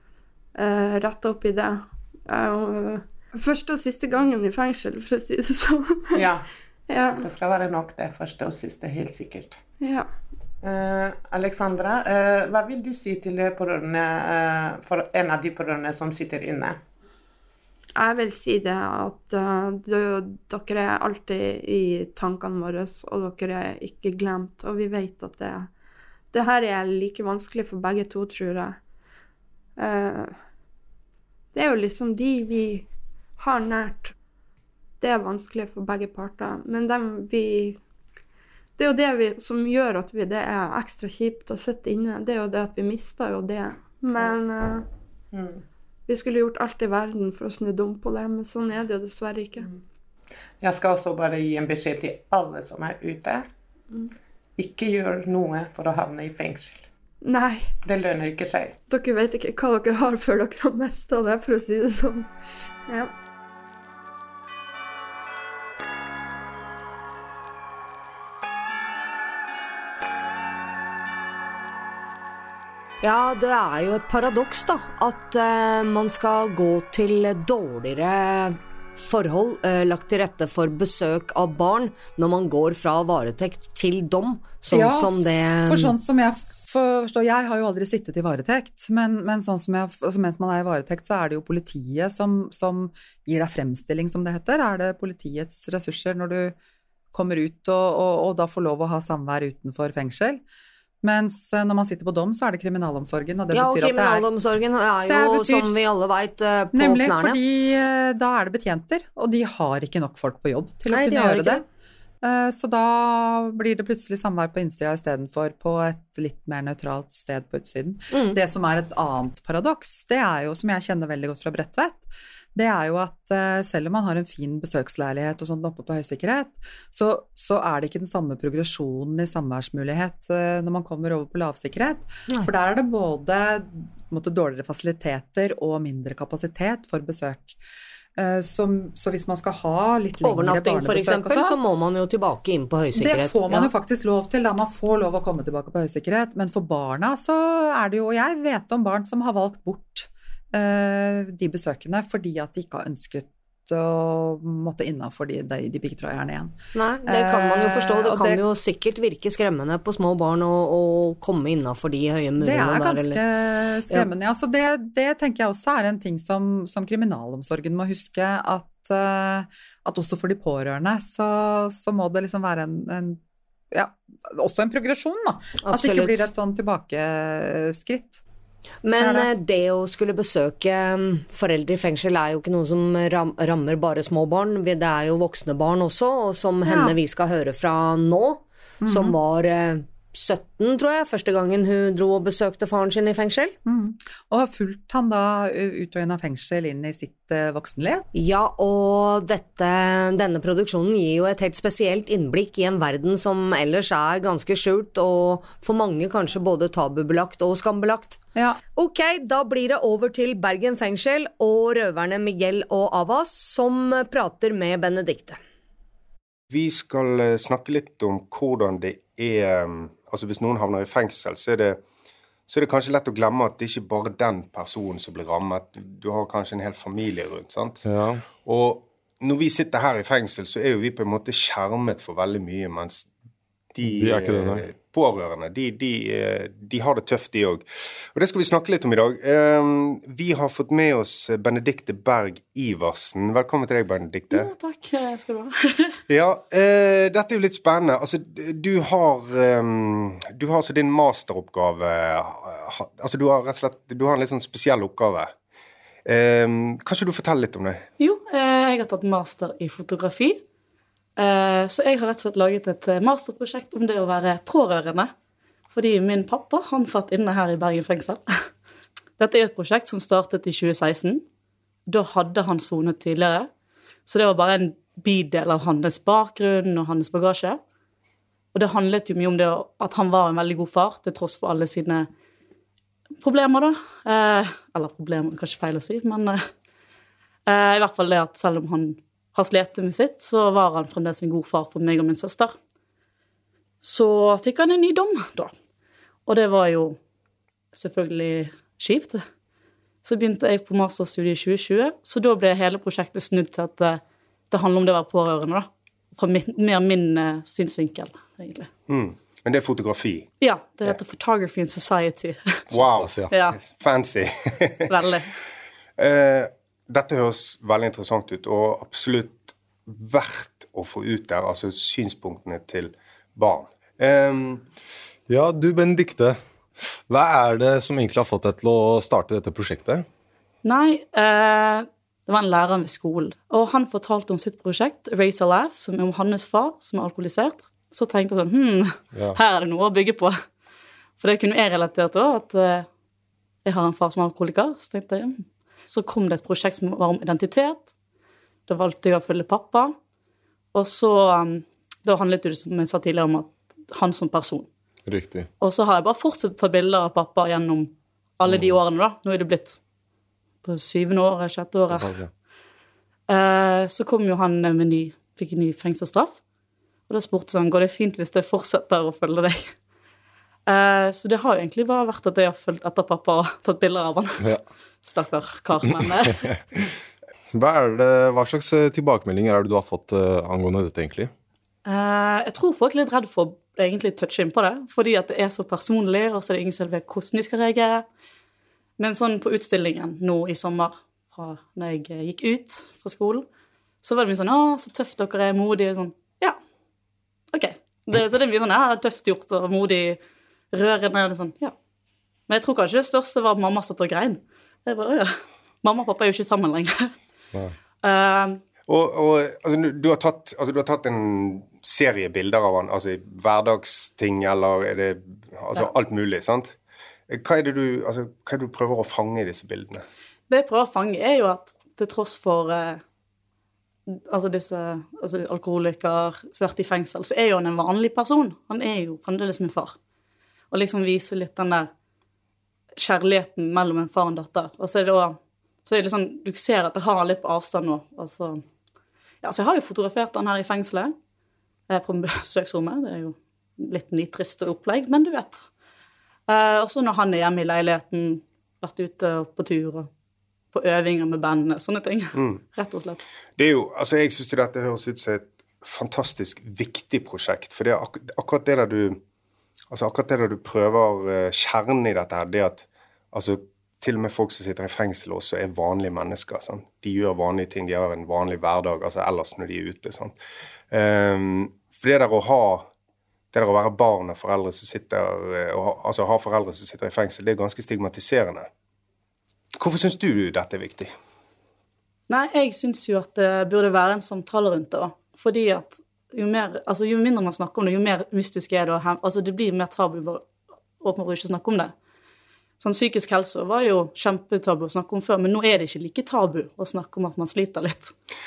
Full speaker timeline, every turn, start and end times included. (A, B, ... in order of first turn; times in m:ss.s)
0:00.5-0:06.3 A
0:06.2-0:06.4 B
0:06.9-0:07.3 A
0:07.2-0:09.6 B
0:09.8-0:10.1 A
0:10.6-0:16.8 B
0:18.0-0:25.7 A
0:26.3-0:28.8 A
0:29.8-0:30.4 A
0:31.5-0:34.1 A
0:35.0-0:37.8 A
0:38.8-0:44.8 A
0:45.3-0:45.6 B
0:46.1-0:49.7 A
0:50.6-0:53.4 B
0:54.6-0:56.9 B
0:57.2-0:57.8 A
0:57.8-0:58.7 B
0:58.9-1:02.3 A
1:02.8-1:03.1 A
1:13.0-1:25.9 C
1:24.7-1:36.6 D
1:37.1-1:40.4 D
1:41.0-1:44.2 D
1:43.5-1:47.4 C
1:45.1-1:45.7 D
1:46.7-1:51.6 D
1:50.9-1:51.6 C
1:52.2-2:17.6 D
1:58.1-1:58.4 C
2:18.2-2:21.6 D
2:20.2-2:23.7 C
2:22.9-2:38.4 D
2:36.7-2:43.2 C
2:42.4-2:53.2 D
2:53.7-2:58.2 D
2:55.6-2:56.3 C
2:58.8-3:13.5 C
2:59.0-2:59.3 D
3:06.6-3:06.9 D
3:08.8-3:09.2 D
3:13.6-3:18.0 D
3:18.1-3:28.2 C
3:28.8-3:35.4 C
3:36.5-3:41.8 E
3:42.5-3:53.1 E
3:47.8-3:48.2 F
3:53.7-4:04.5 E
3:53.8-3:54.6 F
4:04.3-4:06.0 G
4:06.1-4:15.3 E
4:16.0-4:17.8 E
4:18.0-4:20.4 G
4:21.2-4:25.1 G
4:25.7-4:28.5 G
4:29.2-4:31.2 G
4:31.9-4:33.5 G
4:34.0-4:37.6 G
4:38.5-4:42.1 G
4:43.2-4:46.4 G
4:47.5-4:52.5 G
4:53.8-4:55.5 G
4:56.3-4:57.0 G
4:57.7-4:59.2 G
5:00.0-5:08.7 G
5:08.9-5:10.3 E
5:10.4-5:12.6 G
5:12.7-5:14.9 E
5:12.7-5:13.3 F
5:13.3-5:13.6 G
5:14.9-5:15.3 G
5:16.0-5:24.6 E
5:25.3-5:30.0 F
5:30.6-5:40.4 G
5:41.2-5:42.9 G
5:43.6-5:47.9 G
5:48.7-5:49.9 G
5:50.7-5:54.7 G
5:55.0-5:55.5 F
5:55.6-5:59.8 G
5:58.4-5:58.8 F
6:00.6-6:02.1 G
6:01.8-6:02.3 F
6:03.3-6:06.4 G
6:07.1-6:09.7 G
6:10.7-6:14.4 G
6:15.0-6:16.5 G
6:15.8-6:16.5 F
6:17.5-6:21.3 F
6:21.8-6:28.0 G
6:29.0-6:33.4 G
6:34.0-6:36.6 G
6:37.5-6:40.2 G
6:40.7-6:41.7 G
6:42.5-6:47.1 G
6:48.0-6:48.6 G
6:48.9-6:56.8 E
6:57.3-7:00.0 E
7:00.5-7:03.0 G
7:04.1-7:09.9 G
7:10.7-7:11.9 G
7:13.0-7:18.6 G
7:19.4-7:21.1 G
7:21.9-7:25.6 G
7:26.5-7:30.1 G
7:30.7-7:33.2 G
7:32.3-7:32.6 E
7:33.6-7:39.2 E
7:39.9-7:50.3 E
7:50.9-7:52.9 E
7:53.5-7:58.7 E
7:59.8-8:01.1 E
8:02.3-8:10.4 G
8:11.0-8:11.9 G
8:12.8-8:18.1 G